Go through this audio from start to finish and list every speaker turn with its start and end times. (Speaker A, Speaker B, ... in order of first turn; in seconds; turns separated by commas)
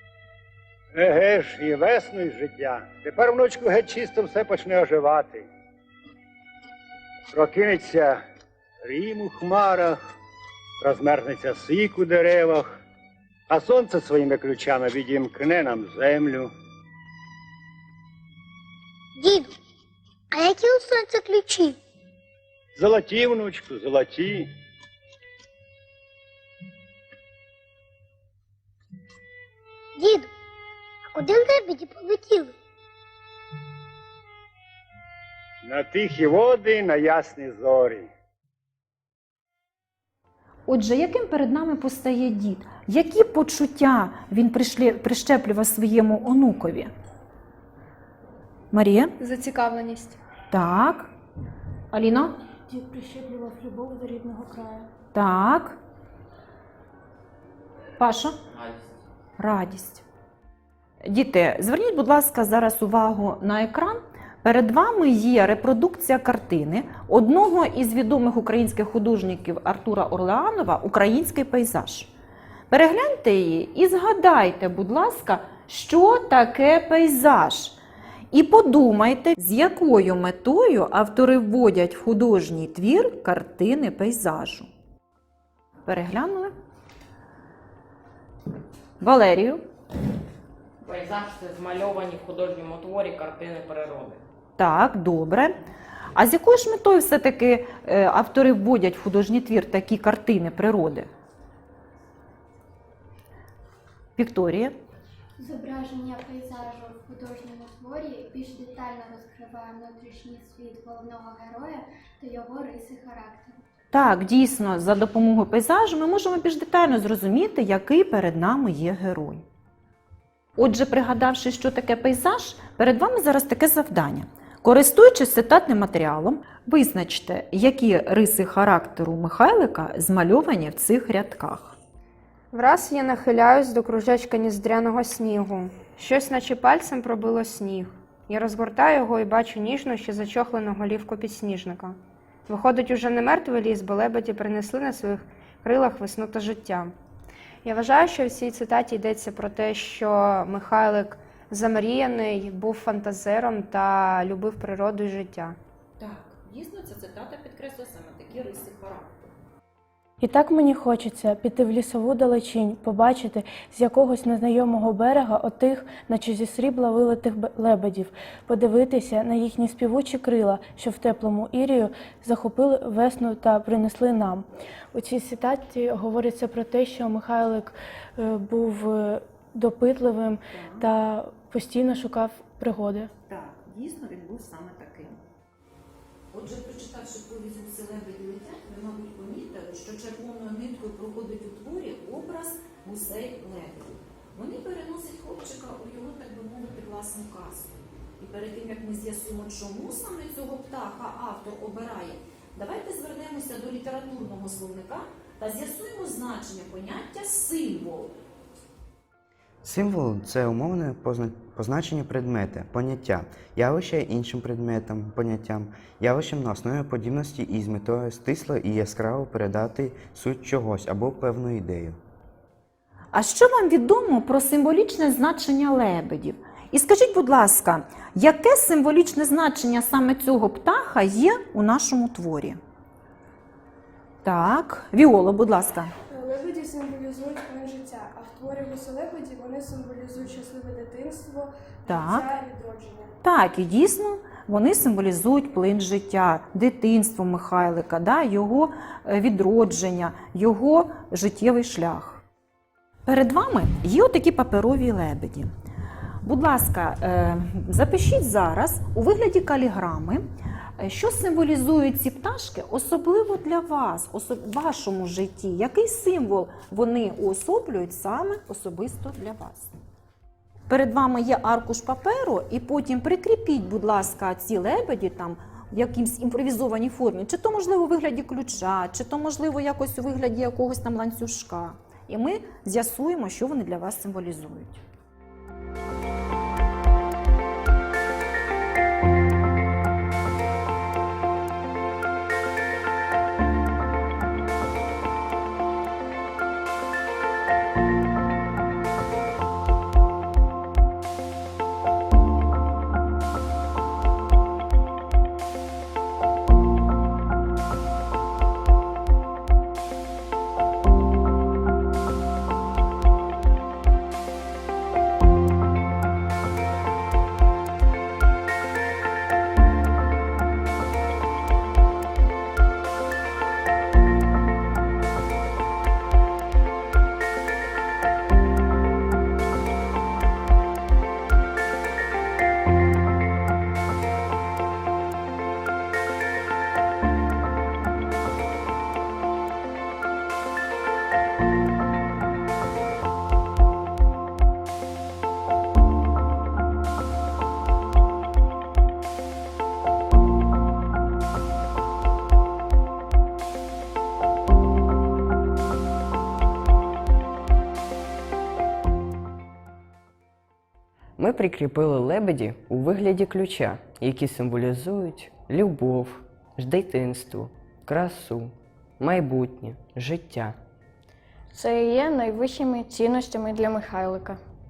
Speaker A: 0.9-5.5, Speaker A: 7.3-8.2, Speaker A: 8.8-10.0, Speaker A: 10.8-12.8, Speaker A: 13.5-16.5, Speaker B: 19.2-19.5, Speaker B: 20.3-21.8, Speaker A: 22.8-24.5, Speaker B: 29.9-30.3, Speaker B: 31.1-32.5, Speaker A: 35.6-38.1, Speaker C: 40.7-46.9, Speaker C: 48.7-49.1, Speaker D: 49.2-50.2, Speaker C: 50.5-51.1, Speaker C: 51.9-52.3, Speaker E: 52.7-54.9, Speaker C: 55.1-55.8, Speaker C: 58.0-58.4, Speaker C: 59.4-60.0, Speaker C: 61.0-72.1, Speaker C: 72.7-77.8, Speaker C: 78.3-84.7, Speaker C: 85.8-86.5, Speaker C: 89.0-89.6, Speaker F: 90.8-94.2, Speaker C: 94.6-95.5, Speaker C: 96.1-101.1, Speaker C: 104.2-104.8, Speaker G: 105.4-113.6, Speaker C: 113.9-119.4, Speaker C: 120.6-131.8, Speaker D: 132.5-146.9, Speaker D: 147.6-155.6, Speaker C: 156.0-159.3, Speaker E: 160.2-183.1, Speaker C: 180.5-180.9, Speaker C: 183.2-185.2, Speaker C: 186.3-208.1, Speaker H: 209.6-222.0, Speaker C: 223.1-232.6, Speaker C: 234.2-235.9, Speaker I: 236.1-243.1, Speaker C: 241.9-242.3, Speaker C: 243.2-252.2, Speaker C: 253.1-255.5, Speaker C: 256.2-260.2, Speaker C: 260.8-269.7, Speaker C: 270.7-284.8, Speaker J: 361.2-370.6, Speaker K: 371.5-374.4